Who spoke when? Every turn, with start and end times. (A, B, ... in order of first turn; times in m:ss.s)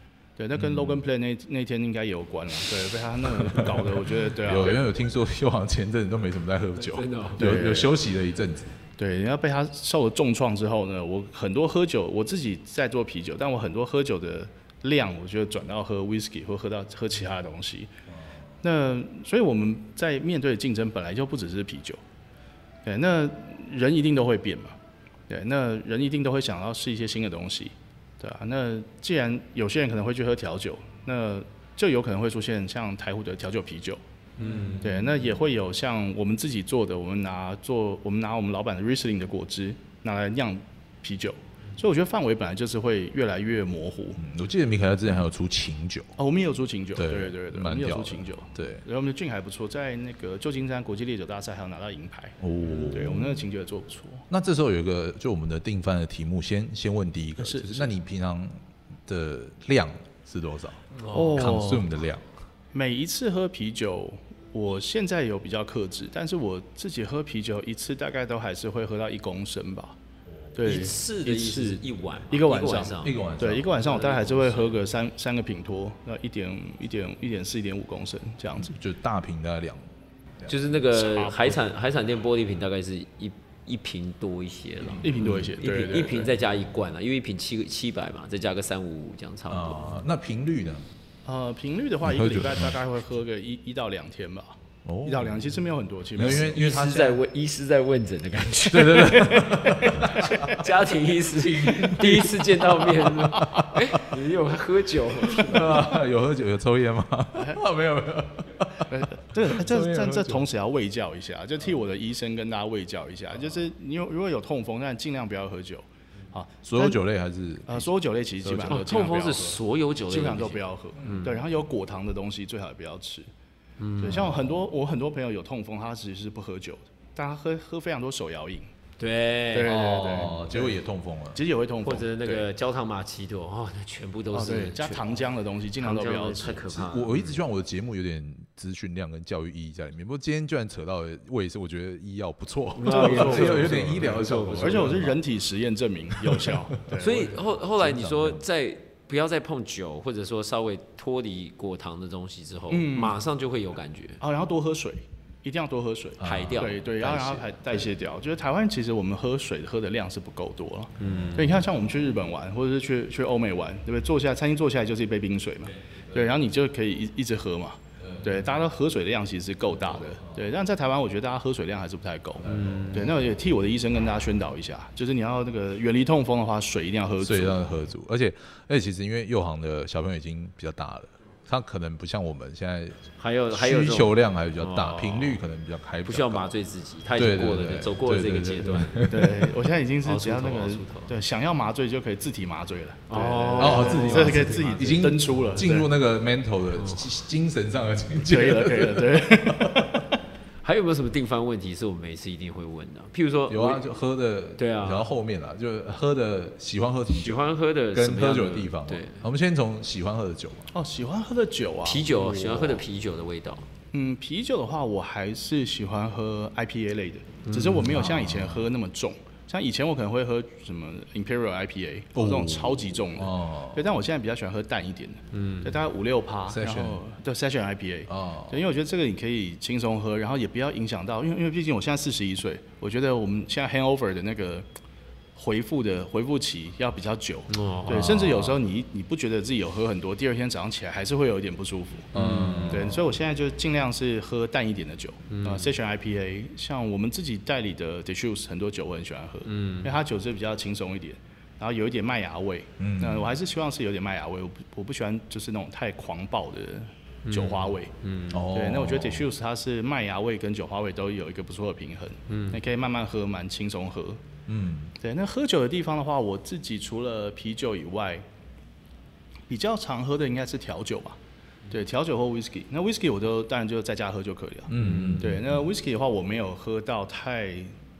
0:00.4-0:04.8 A
0:00.6-0:01.0 B
0:03.3-0:08.8 B
0:06.8-0:07.5 C
0:07.4-0:07.9 A
0:09.0-0:17.9 A
0:18.1-0:18.5 B
0:18.6-0:22.0 A
0:22.8-0:24.8 A
0:25.3-0:34.0 A
0:34.4-0:35.1 C
0:34.7-0:44.2 A
0:44.2-0:46.2 B
0:46.2-0:54.3 A
0:46.9-0:48.8 B
0:52.4-0:53.4 B
0:54.3-1:02.2 B
0:57.4-0:57.9 A
1:01.0-1:01.4 C
1:01.1-1:01.9 A
1:02.7-1:10.0 A
1:10.3-1:10.6 B
1:10.5-1:18.8 A
1:10.6-1:14.8 C
1:13.0-1:13.6 B
1:18.6-1:20.5 B
1:20.5-1:29.9 C
1:20.9-1:21.6 A
1:25.0-1:26.3 A
1:25.0-1:25.5 B
1:29.5-1:30.9 B
1:31.2-1:36.6 A
1:32.0-1:32.8 B
1:34.8-1:35.4 B
1:36.1-1:37.2 B
1:36.2-1:45.8 C
1:38.7-1:40.7 B
1:41.3-1:44.1 B
1:45.3-1:50.4 B
1:47.3-1:47.6 A
1:48.9-1:57.0 A
1:56.6-1:57.9 B
1:57.7-2:03.3 A
1:58.4-1:58.9 B
1:58.6-2:01.4 C
2:03.8-2:04.3 C
2:04.0-2:08.7 A
2:04.1-2:04.5 B
2:09.0-2:09.9 C
2:09.5-2:10.8 A
2:09.6-2:11.4 B
2:11.3-2:12.4 A
2:11.8-2:15.2 C
2:14.3-2:16.7 A
2:15.8-2:17.4 C
2:16.7-2:25.2 B
2:22.8-2:25.1 C
2:22.8-2:27.4 A
2:26.1-2:26.7 B
2:27.0-2:34.2 C
2:27.8-2:28.4 B
2:32.7-2:33.2 A
2:34.2-2:57.7 A
2:36.2-2:36.6 B
2:36.2-2:37.8 C
2:41.0-2:41.6 C
2:41.0-2:41.6 B
2:45.8-2:46.3 B
2:48.0-2:48.5 B
2:49.8-2:50.4 B
2:52.4-2:53.1 B
2:52.5-2:53.1 C
2:57.2-3:06.5 B
3:03.2-3:05.4 C
3:06.0-3:09.1 C
3:07.1-3:09.5 B
3:09.1-3:15.9 A
3:10.0-3:11.1 C
3:13.1-3:15.1 C
3:13.6-3:20.1 B
3:16.7-3:17.1 C
3:18.2-3:19.9 A
3:20.6-3:23.9 C
3:23.5-3:30.7 B
3:24.6-3:25.1 C
3:27.1-3:29.2 C
3:30.7-3:32.8 A
3:31.8-3:33.7 C
3:33.9-3:54.6 A
3:37.4-3:38.0 C
3:37.9-3:38.6 B
3:42.1-3:43.8 B
3:45.3-3:45.8 C
3:46.5-3:47.0 B
3:48.1-3:48.6 B
3:55.4-4:02.1 A
3:57.5-3:58.3 C
3:57.9-3:58.6 B
4:02.1-4:02.9 C
4:02.1-4:03.0 B
4:02.7-4:17.9 A
4:05.3-4:05.7 C
4:09.4-4:10.0 C
4:12.8-4:13.4 B
4:17.2-4:18.4 C
4:18.3-4:19.2 B
4:18.5-4:24.2 A
4:22.3-4:22.6 C
4:24.5-4:24.9 B
4:25.0-4:28.2 A
4:29.5-4:31.2 A
4:31.7-4:37.7 A
4:34.7-4:35.6 B
4:34.8-4:35.4 C